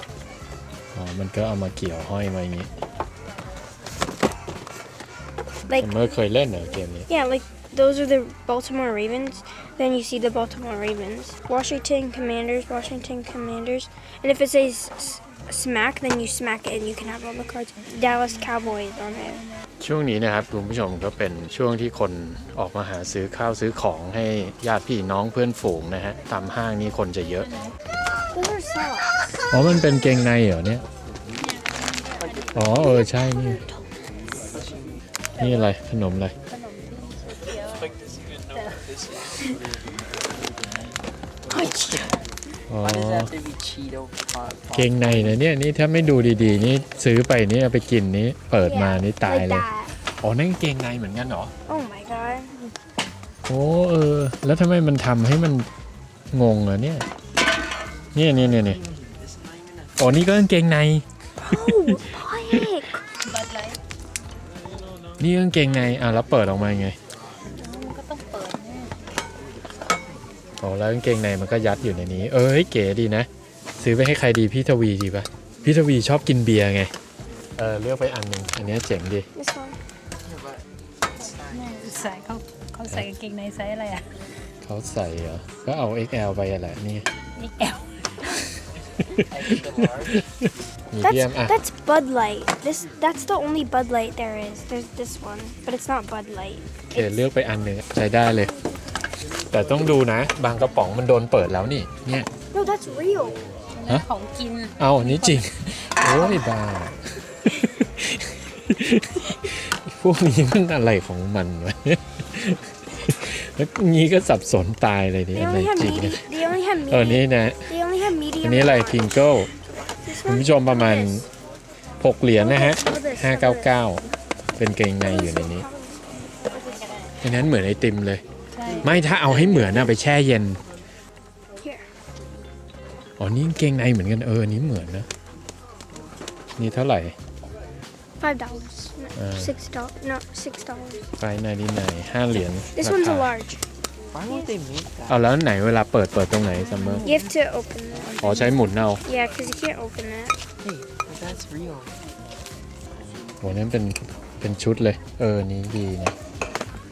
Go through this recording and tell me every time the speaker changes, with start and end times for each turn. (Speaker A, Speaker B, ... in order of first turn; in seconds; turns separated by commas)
Speaker A: 0.9-2.7, Speaker A: 5.7-7.1, Speaker B: 7.1-19.4, Speaker A: 19.8-27.5, Speaker C: 27.4-27.7, Speaker B: 28.3-29.2, Speaker A: 29.5-30.8, Speaker C: 31.4-32.7, Speaker A: 32.5-33.6, Speaker D: 34.3-35.0, Speaker A: 35.4-36.3, Speaker C: 36.5-37.9, Speaker D: 37.9-39.4, Speaker C: 38.5-38.8, Speaker D: 41.5-42.1, Speaker B: 41.6-42.0, Speaker A: 42.7-43.3, Speaker D: 42.8-45.3, Speaker A: 44.7-49.6, Speaker B: 48.6-49.9, Speaker A: 50.2-51.5, Speaker B: 51.7-52.5, Speaker A: 53.5-55.7, Speaker A: 56.3-57.1, Speaker A: 58.1-58.8, Speaker D: 58.8-59.1, Speaker A: 60.0-61.0, Speaker B: 61.4-63.0, Speaker C: 63.2-63.8, Speaker A: 65.2-67.0, Speaker C: 67.6-68.9, Speaker A: 70.6-76.9, Speaker A: 77.6-79.3, Speaker B: 79.3-79.8, Speaker D: 80.2-82.2, Speaker C: 81.5-84.1, Speaker A: 84.6-87.1, Speaker C: 87.4-87.8, Speaker A: 89.0-91.5, Speaker D: 89.3-90.2, Speaker B: 91.0-97.2, Speaker A: 96.9-98.5, Speaker A: 99.5-102.3, Speaker B: 102.5-103.4, Speaker C: 103.7-105.4, Speaker A: 104.8-116.2, Speaker B: 115.3-119.1, Speaker A: 116.9-117.7, Speaker A: 118.4-119.5, Speaker B: 120.0-121.2, Speaker A: 120.2-121.2, Speaker A: 122.0-124.0, Speaker B: 122.4-123.7, Speaker A: 124.6-125.7, Speaker B: 125.0-126.0, Speaker A: 127.2-128.2, Speaker C: 128.5-128.9, Speaker A: 128.8-130.6, Speaker A: 133.2-135.1, Speaker A: 136.6-137.1, Speaker B: 138.2-141.0, Speaker A: 139.2-139.5, Speaker A: 141.2-143.3, Speaker B: 142.7-143.6, Speaker D: 144.1-145.2, Speaker A: 145.1-147.0, Speaker B: 147.0-148.2, Speaker A: 148.2-149.0, Speaker B: 149.0-150.3, Speaker D: 150.6-152.0, Speaker A: 153.4-156.1